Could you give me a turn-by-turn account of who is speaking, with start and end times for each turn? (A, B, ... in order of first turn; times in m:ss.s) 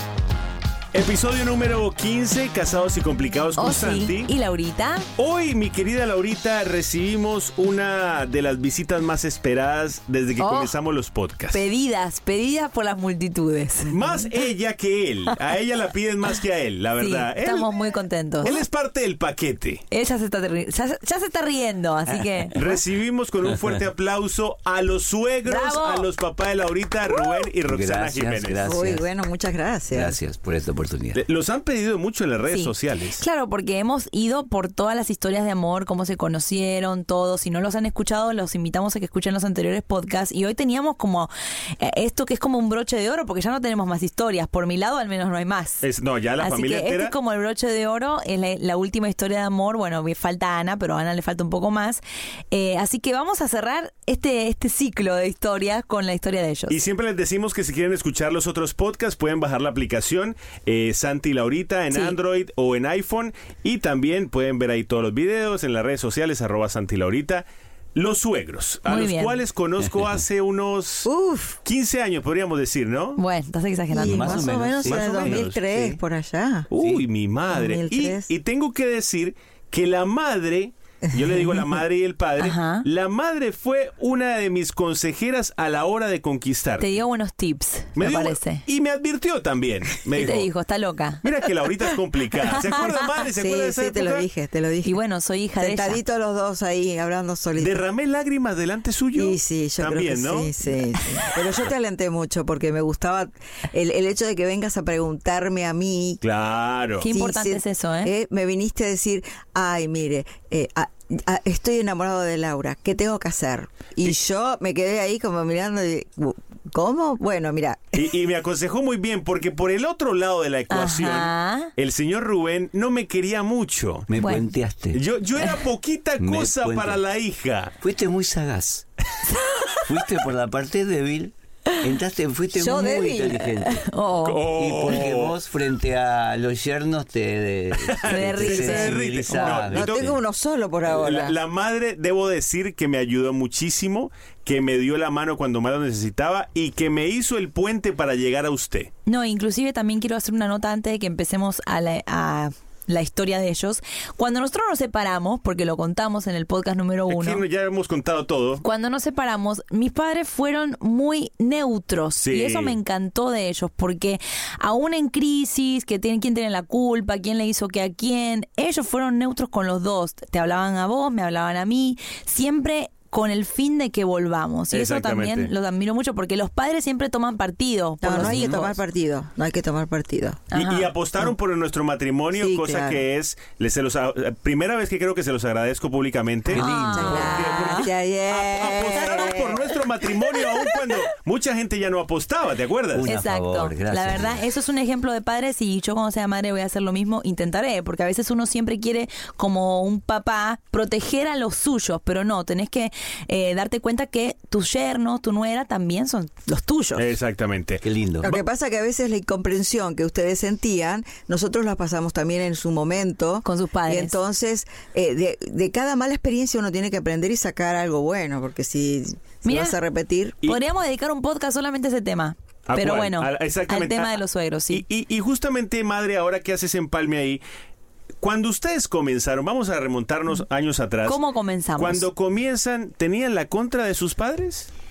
0:00.9-0:04.3 A
0:03.6-0:05.0 B
0:05.2-0:11.6 A
0:10.4-0:10.7 B
0:11.5-0:14.3 B
0:13.8-0:17.8 A
0:17.0-0:18.6 B
0:18.4-0:19.8 A
0:19.9-0:22.7 B
0:22.5-0:28.6 A
0:25.4-0:26.1 B
0:27.6-0:29.0 C
0:28.6-0:30.2 D
0:29.9-0:31.2 C
0:31.1-0:33.2 A
0:32.5-0:45.8 B
0:45.8-0:47.1 A
0:46.4-0:56.8 B
0:56.7-1:11.1 A
1:08.9-1:09.4 B
1:11.0-1:11.6 D
1:11.6-1:13.2 A
1:13.2-1:14.4 B
1:13.9-1:16.7 D
1:14.0-1:15.9 C
1:14.8-1:15.6 A
1:16.7-1:26.9 A
1:16.8-1:17.0 C
1:17.5-1:18.3 D
1:22.4-1:22.8 B
1:26.8-1:28.6 B
1:28.0-1:30.5 A
1:30.1-1:31.2 B
1:31.2-1:34.2 A
1:33.4-1:35.0 D
1:34.8-1:36.0 B
1:35.6-1:37.8 D
1:37.6-1:40.5 A
1:39.1-1:46.2 D
1:46.2-1:47.0 A
1:47.0-1:48.1 B
1:47.1-1:58.1 D
1:57.9-2:04.1 A
2:00.7-2:01.7 B
2:04.1-2:05.0 C
2:04.2-2:04.4 B
2:04.9-2:07.8 A
2:06.2-2:07.0 C
2:07.8-2:08.8 C
2:09.8-2:13.8 C
2:12.5-2:13.5 D
2:13.6-2:14.5 B
2:14.2-2:15.3 A
2:14.4-2:20.2 C
2:17.8-2:20.1 A
2:18.0-2:19.0 B
2:19.4-2:21.4 D
2:20.9-2:28.9 A
2:29.0-2:37.4 B
2:37.1-2:38.6 A
2:38.6-2:58.8 B
2:42.2-2:42.8 A
2:54.7-2:55.5 A
2:58.0-3:00.5 D
3:00.5-3:00.9 B
3:00.5-3:13.1 A
3:02.3-3:03.0 D
3:06.5-3:07.4 C
3:06.6-3:07.8 B
3:07.0-3:09.7 D
3:12.9-3:14.4 C
3:13.0-3:27.0 B
3:27.0-3:28.4 A
3:27.8-3:28.3 C
3:28.2-3:40.4 D
3:33.4-3:34.2 B
3:39.4-3:39.8 B
3:40.4-3:44.8 B
3:42.7-3:44.2 A
3:44.7-3:47.4 A
3:48.2-3:51.2 A
3:51.0-3:52.0 B
3:51.8-3:54.7 A